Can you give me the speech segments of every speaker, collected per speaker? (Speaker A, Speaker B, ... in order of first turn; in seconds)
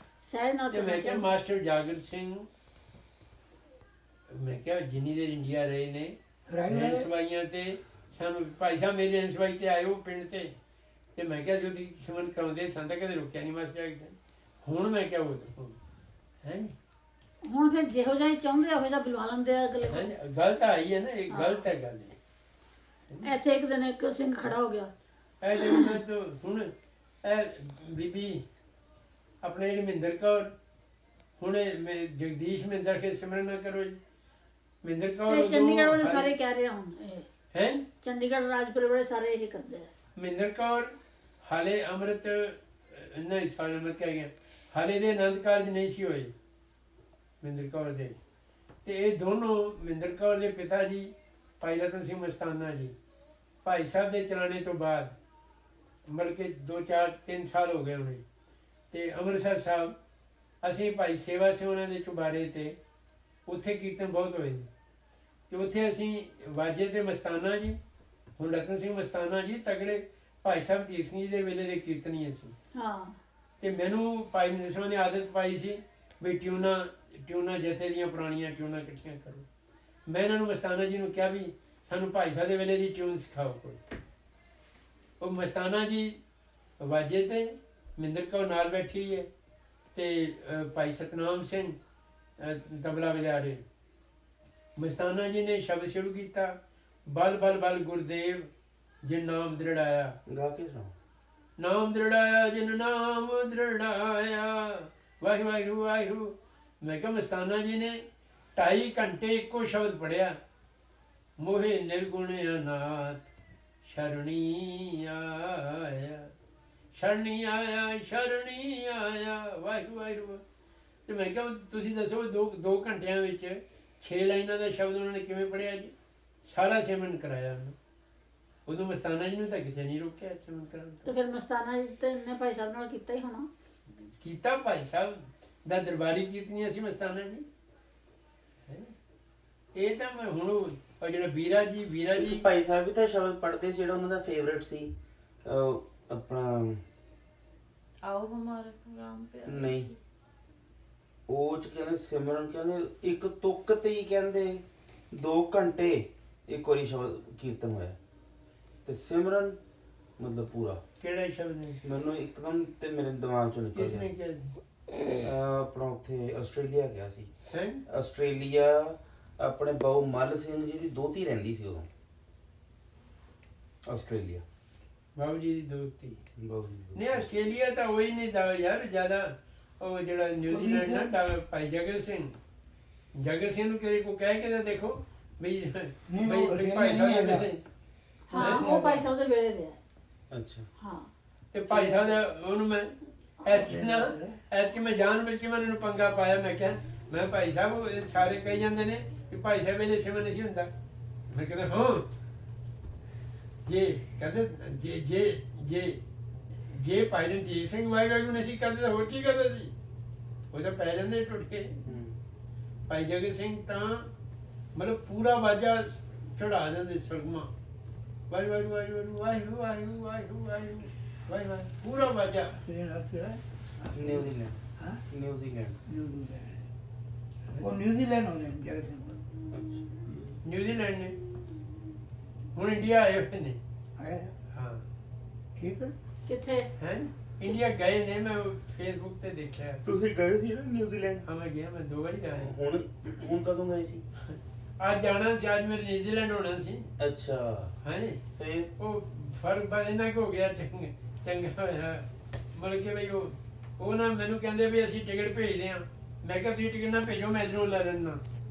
Speaker A: 0.2-1.3, 17.5-20.1, 21.3-21.6, 23.2-24.9, 25.6-25.9, 35.3-37.3, 38.0-39.9, 72.7-73.2, 131.1-133.5, 188.3-189.8, 190.8-191.1, 236.3-236.7
Speaker B: 0.7-2.5, 4.3-6.2, 6.7-10.5, 11.2-15.8, 16.4-16.7, 19.9-22.2, 25.4-26.7, 27.2-28.4, 29.4-30.5, 31.4-34.0, 34.8-36.3, 37.5-37.9, 40.2-40.9, 41.4-46.3, 47.4-48.2, 48.9-52.9, 53.6-55.1, 56.1-58.2, 58.9-60.0, 60.6-62.8, 63.5-64.7, 65.5-67.8, 68.4-72.5, 73.6-79.5, 80.1-83.8, 85.2-86.2, 86.8-89.3, 89.9-91.8, 92.4-93.6, 94.8-96.5, 97.1-98.5, 99.0-100.2, 101.6-108.0, 108.6-110.3, 111.4-113.3, 113.8-116.3, 116.9-120.4, 121.1-127.8, 128.7-131.1, 134.2-137.4, 138.7-138.9, 139.7-142.4, 161.0-161.8, 163.7-164.5, 167.5-167.8, 175.2-176.2, 176.9-182.4, 183.1-187.6, 188.3-188.7, 191.5-200.7, 201.3-202.0, 203.7-206.0, 206.7-209.7, 210.5-211.8, 212.9-214.1, 214.8-217.5, 218.3-222.6, 227.5-227.7, 230.4-231.2, 232.6-233.6, 234.5-234.8, 236.8-239.8, 241.2-242.5, 244.2-246.9, 247.8-248.2, 248.8-258.2
Speaker C: 6.5-7.1, 180.5-181.1, 186.1-187.5, 188.4-189.0, 193.6-194.4, 222.6-224.3, 225.9-226.7, 227.6-229.2, 234.0-234.3, 235.6-235.9
Speaker D: 100.3-100.9, 142.2-146.8, 149.4-149.9, 151.3-158.0, 158.9-159.6, 160.2-160.8, 161.8-164.1, 165.2-167.3, 167.8-171.9, 173.9-174.4, 176.4-177.3, 190.3-190.7, 211.9-212.2, 223.9-225.8, 229.5-230.4, 239.8-241.3, 242.4-244.0, 247.0-247.8, 248.3-248.7
Speaker E: 148.0-150.0